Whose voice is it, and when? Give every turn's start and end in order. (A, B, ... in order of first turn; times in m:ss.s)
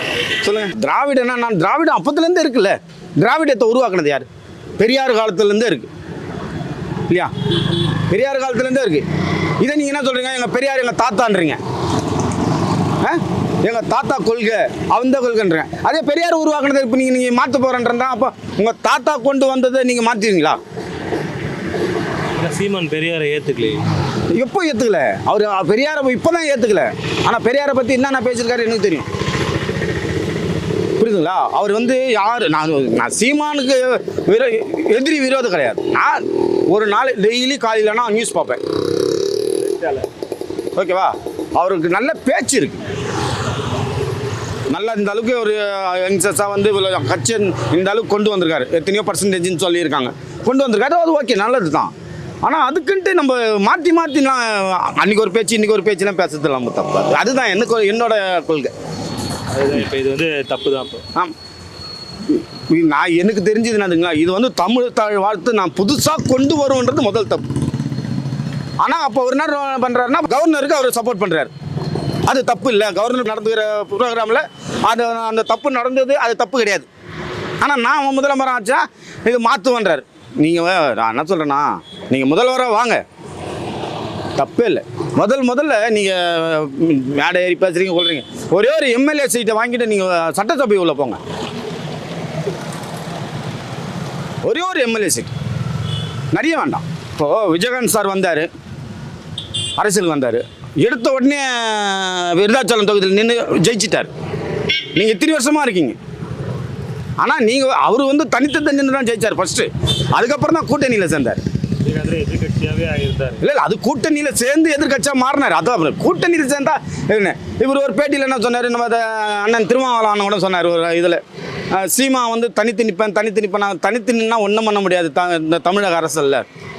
0:00.4-0:04.3 A
0:04.8-0:05.9 A
0:08.1-0:09.0 A
0:09.6-0:11.6 A
0:13.0-0:20.6 A
0:22.4-0:23.8 B
0:24.4-0:29.1 A
0:31.0-0:38.6 A
0:39.8-0:40.0 B
0:40.8-0:42.8 A
0:44.7-0:51.9 A
0:52.4-0:58.7 A
0:59.5-1:01.0 B
1:02.7-1:07.4 A
1:08.8-1:11.5 A
1:12.3-1:16.9 A
1:17.6-1:23.0 A
1:24.4-1:31.2 A
1:34.4-1:35.3 A
1:36.3-1:38.5 A
1:39.8-1:44.1 A
1:44.9-1:46.0 A
1:47.2-1:51.4 A
1:51.8-1:53.4 B
1:53.4-2:01.2 A
2:01.7-2:06.4 A